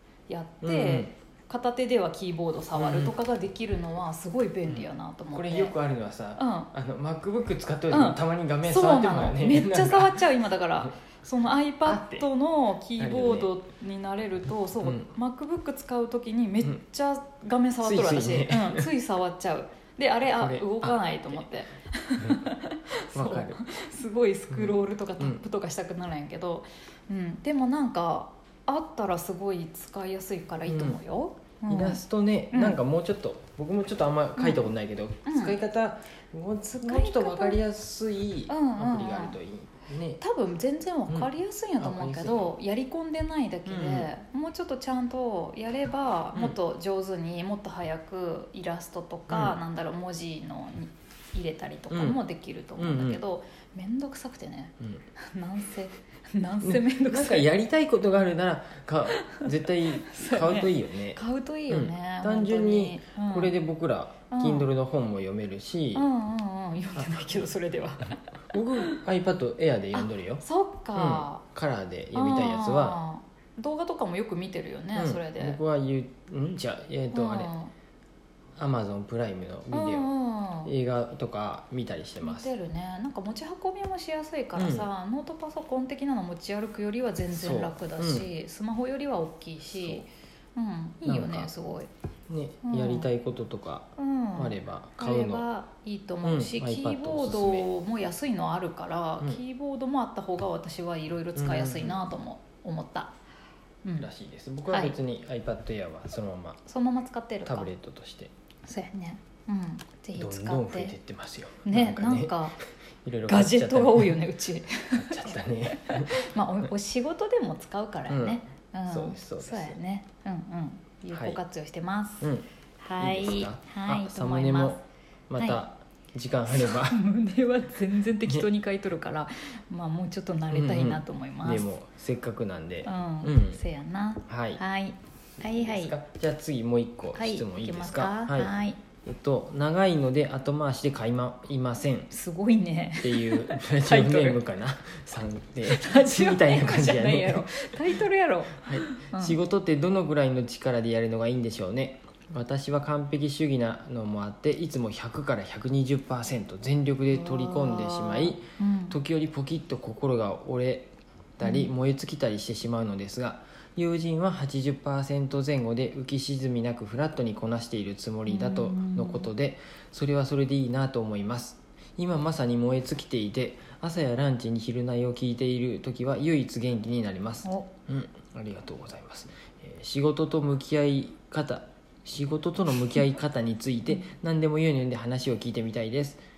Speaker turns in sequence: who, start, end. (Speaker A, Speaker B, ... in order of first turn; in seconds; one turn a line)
Speaker A: 0.3-5.7
Speaker B: 0.6-1.1
Speaker B: 2.7-3.1
Speaker B: 4.7-10.2
Speaker A: 6.4-6.7
Speaker A: 7.9-32.8
Speaker B: 11.8-12.3
Speaker B: 13.0-13.5
Speaker B: 14.8-15.1
Speaker B: 17.8-18.9
Speaker B: 20.2-21.4
Speaker B: 22.2-22.5
Speaker B: 23.1-23.7
Speaker B: 24.5-25.4
Speaker B: 30.6-31.0
Speaker B: 31.7-40.2
Speaker A: 34.4-34.7
Speaker A: 35.2-35.6
Speaker A: 36.6-37.6
Speaker A: 38.5-39.4
Speaker A: 40.2-57.5
Speaker B: 41.1-42.5
Speaker B: 43.6-44.1
Speaker B: 49.3-49.6
Speaker B: 51.9-52.2
Speaker B: 52.8-53.2
Speaker B: 56.6-66.1
Speaker A: 59.2-63.5
Speaker A: 64.3-64.7
Speaker A: 65.9-69.0
Speaker B: 68.5-70.4
Speaker A: 69.9-71.4
Speaker B: 70.9-73.0
Speaker A: 72.1-75.6
Speaker B: 74.9-77.5
Speaker A: 77.1-77.7
Speaker B: 78.5-80.1
Speaker A: 79.7-80.7
Speaker B: 80.6-82.5
Speaker A: 82.2-91.9
Speaker B: 84.5-84.9
Speaker B: 87.3-88.3
Speaker B: 89.7-90.0
Speaker B: 91.0-91.5
Speaker B: 92.3-95.4
Speaker A: 92.6-93.1
Speaker A: 94.0-103.1
Speaker B: 96.2-97.7
Speaker B: 101.3-102.0
Speaker A: 103.8-104.1
Speaker B: 104.0-106.6
Speaker A: 104.7-105.0
Speaker A: 106.7-107.7
Speaker B: 107.4-108.3
Speaker A: 108.7-111.0
Speaker B: 110.2-112.5
Speaker A: 111.6-112.5
Speaker B: 113.0-114.2
Speaker A: 113.3-122.3
Speaker B: 114.9-116.1
Speaker B: 118.1-119.8
Speaker B: 121.1-121.4
Speaker B: 122.2-127.0
Speaker A: 122.8-124.8
Speaker A: 126.6-131.6
Speaker B: 130.5-133.6
Speaker A: 132.8-135.9
Speaker B: 134.3-134.6
Speaker B: 135.4-142.1
Speaker A: 137.1-138.8
Speaker A: 142.1-144.4
Speaker B: 143.0-147.9
Speaker A: 145.7-149.4
Speaker B: 148.6-186.2
Speaker A: 157.1-159.0
Speaker A: 161.4-161.7
Speaker A: 168.2-169.3